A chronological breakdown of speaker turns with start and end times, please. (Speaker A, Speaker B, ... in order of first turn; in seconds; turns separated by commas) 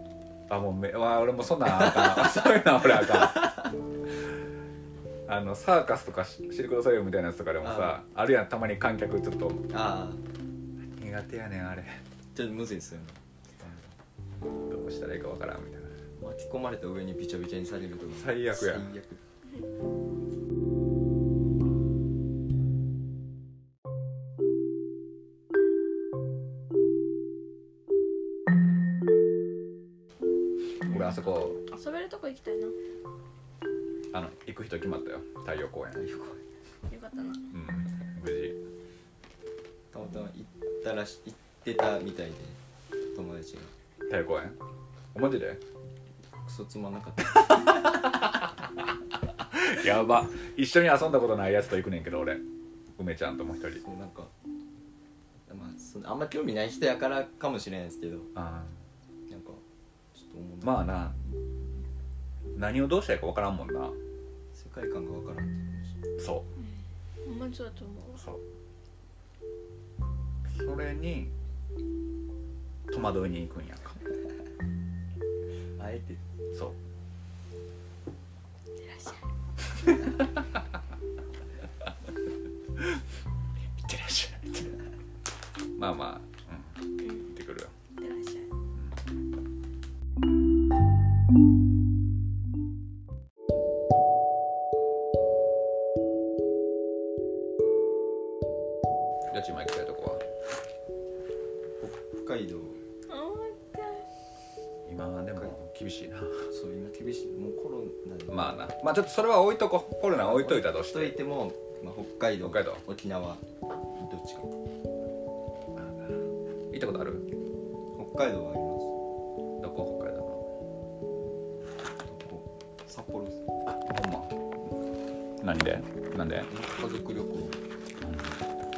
Speaker A: 0.5-3.6, Speaker B: 1.6-3.6, Speaker A: 5.3-9.7, Speaker B: 7.6-8.0, Speaker B: 9.7-10.2, Speaker A: 11.0-12.0, Speaker B: 12.3-13.9, Speaker A: 14.7-15.9, Speaker B: 16.2-19.2, Speaker A: 18.1-18.9, Speaker C: 30.8-32.7, Speaker A: 30.9-31.6, Speaker A: 34.1-36.0, Speaker B: 35.9-36.4, Speaker C: 36.9-37.4, Speaker A: 37.5-38.6, Speaker B: 39.9-42.6, Speaker B: 43.1-43.7, Speaker A: 44.1-44.6, Speaker A: 45.1-45.6, Speaker B: 46.4-48.2, Speaker A: 47.7-48.4, Speaker A: 49.4-52.4, Speaker A: 53.0-53.8, Speaker B: 53.8-54.3, Speaker B: 55.5-58.3, Speaker A: 58.3-58.8, Speaker B: 59.3-59.6, Speaker B: 60.1-61.3, Speaker A: 60.6-61.2, Speaker A: 62.5-64.0, Speaker B: 64.5-66.0, Speaker A: 66.2-66.5, Speaker C: 67.2-68.2, Speaker A: 68.2-68.4, Speaker A: 70.5-71.3, Speaker A: 72.9-74.0, Speaker B: 75.8-76.2, Speaker A: 76.5-76.8, Speaker C: 78.8-79.2, Speaker A: 80.0-80.6, Speaker A: 83.8-84.8, Speaker A: 85.8-87.7, Speaker C: 87.0-87.3, Speaker C: 88.0-88.5, Speaker A: 88.7-89.0, Speaker A: 99.3-100.2, Speaker B: 101.8-102.8, Speaker C: 103.1-104.1, Speaker A: 104.8-106.5, Speaker B: 106.5-108.5, Speaker A: 108.3-111.2, Speaker B: 110.1-114.5, Speaker A: 112.4-112.8, Speaker A: 115.8-117.3, Speaker B: 117.9-118.9, Speaker A: 119.6-120.4, Speaker B: 122.0-123.5, Speaker A: 123.7-124.3, Speaker A: 125.4-126.5, Speaker B: 126.5-127.6, Speaker A: 128.0-128.4